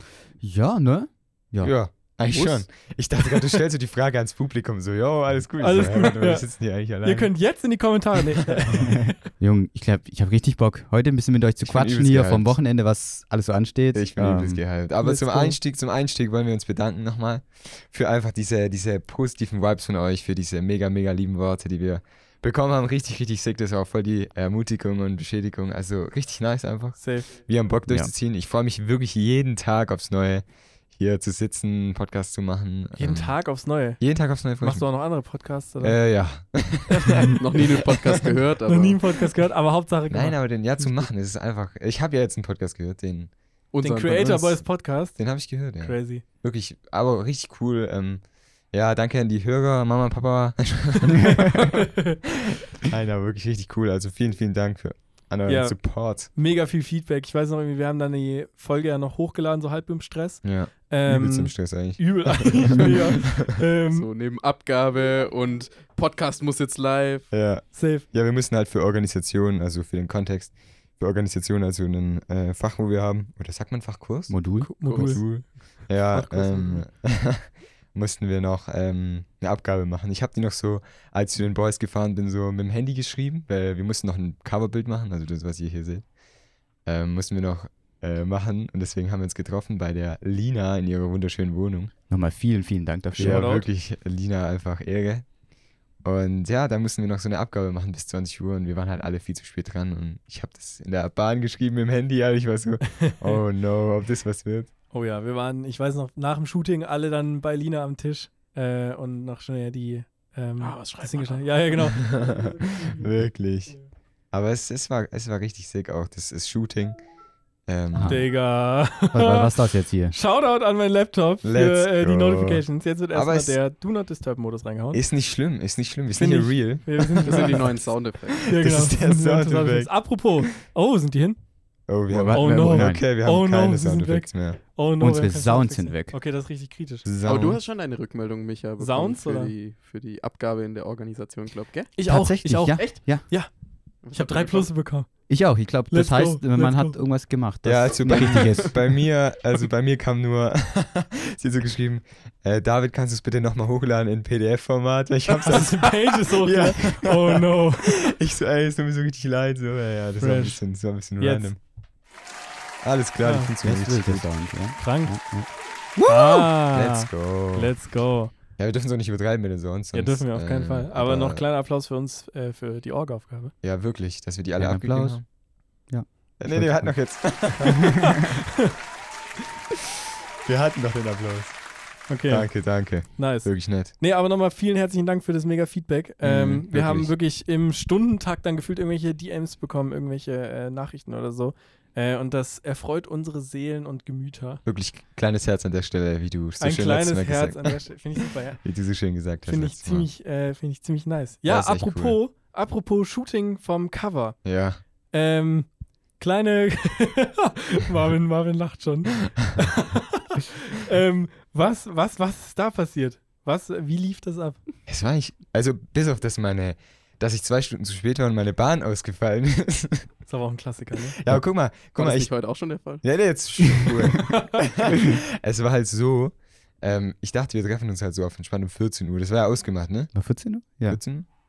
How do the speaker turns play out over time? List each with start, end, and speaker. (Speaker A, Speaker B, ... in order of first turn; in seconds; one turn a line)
Speaker A: 0.4-1.7
Speaker B: 1.6-7.3
Speaker C: 2.3-2.6
Speaker D: 5.6-6.5
Speaker D: 7.0-9.1
Speaker A: 8.7-14.6
Speaker B: 11.6-12.6
Speaker B: 13.9-33.4
Speaker D: 15.0-15.6
Speaker D: 27.0-27.3
Speaker D: 33.0-34.0
Speaker B: 34.0-34.9
Speaker D: 34.6-36.1
Speaker B: 35.8-38.2
Speaker D: 36.9-37.5
Speaker C: 37.4-39.0
Speaker D: 38.7-41.1
Speaker B: 40.1-43.3
Speaker C: 43.7-44.6
Speaker D: 43.8-46.2
Speaker B: 45.2-52.0
Speaker A: 51.2-51.5
Speaker D: 51.5-52.2
Speaker B: 52.7-56.3
Speaker D: 55.5-64.1
Speaker B: 60.4-63.5
Speaker C: 63.9-67.3
Speaker B: 67.3-86.1
Speaker D: 67.7-68.1
Speaker A: 74.3-74.7
Speaker D: 74.6-76.8
Speaker C: 74.8-75.1
Speaker B: 86.8-91.9
Speaker A: 92.1-93.6
Speaker D: 93.2-93.7
Speaker B: 93.2-95.3
Speaker B: 96.0-104.7
Speaker D: 102.9-103.4
Speaker D: 104.9-113.1
Speaker C: 110.6-111.7
Speaker B: 112.0-113.8
Speaker B: 114.3-117.0
Speaker B: 117.7-118.2
Speaker A: 117.9-118.3
Speaker D: 118.0-125.0
Speaker A: 119.1-120.2
Speaker B: 121.4-123.6
Speaker B: 124.9-127.9
Speaker D: 126.1-127.7
Speaker C: 127.2-128.5
Speaker D: 128.5-131.4
Speaker B: 128.5-129.9
Speaker B: 131.9-134.6
Speaker A: 132.1-133.0
Speaker D: 132.3-137.1
Speaker A: 135.0-136.2
Speaker B: 137.1-137.6
Speaker C: 137.2-141.9
Speaker D: 138.8-139.5
Speaker D: 142.0-143.5
Speaker A: 142.1-143.3
Speaker C: 144.0-144.7
Speaker D: 144.1-145.4
Speaker A: 145.3-148.9
Speaker D: 145.9-147.0
Speaker B: 147.6-161.6
Speaker C: 148.1-148.6
Speaker D: 155.4-158.0
Speaker D: 160.2-160.6
Speaker D: 161.2-161.5
Speaker B: 162.8-164.6
Speaker D: 163.2-163.5
Speaker A: 163.6-165.5
Speaker D: 164.8-168.3
Speaker B: 165.9-167.8
Speaker B: 168.6-171.4
Speaker D: 169.9-173.5
Speaker B: 173.6-175.2
Speaker A: 174.6-175.2
Speaker A: 175.9-178.2
Speaker B: 176.4-178.0
Speaker D: 177.6-178.4
Speaker B: 180.4-181.6
Speaker D: 182.1-194.6
Speaker B: 182.3-183.9
Speaker B: 186.2-187.1
Speaker B: 194.7-197.8
Speaker D: 196.6-198.6
Speaker B: 198.6-200.1
Speaker D: 199.5-204.4
Speaker B: 201.5-202.2
Speaker B: 204.4-204.8
Speaker D: 205.1-205.7
Speaker D: 206.2-214.6
Speaker B: 214.9-220.1
Speaker D: 220.3-221.2
Speaker B: 221.2-230.1
Speaker C: 221.9-223.0
Speaker D: 224.3-224.6
Speaker A: 230.1-231.0
Speaker B: 230.9-231.2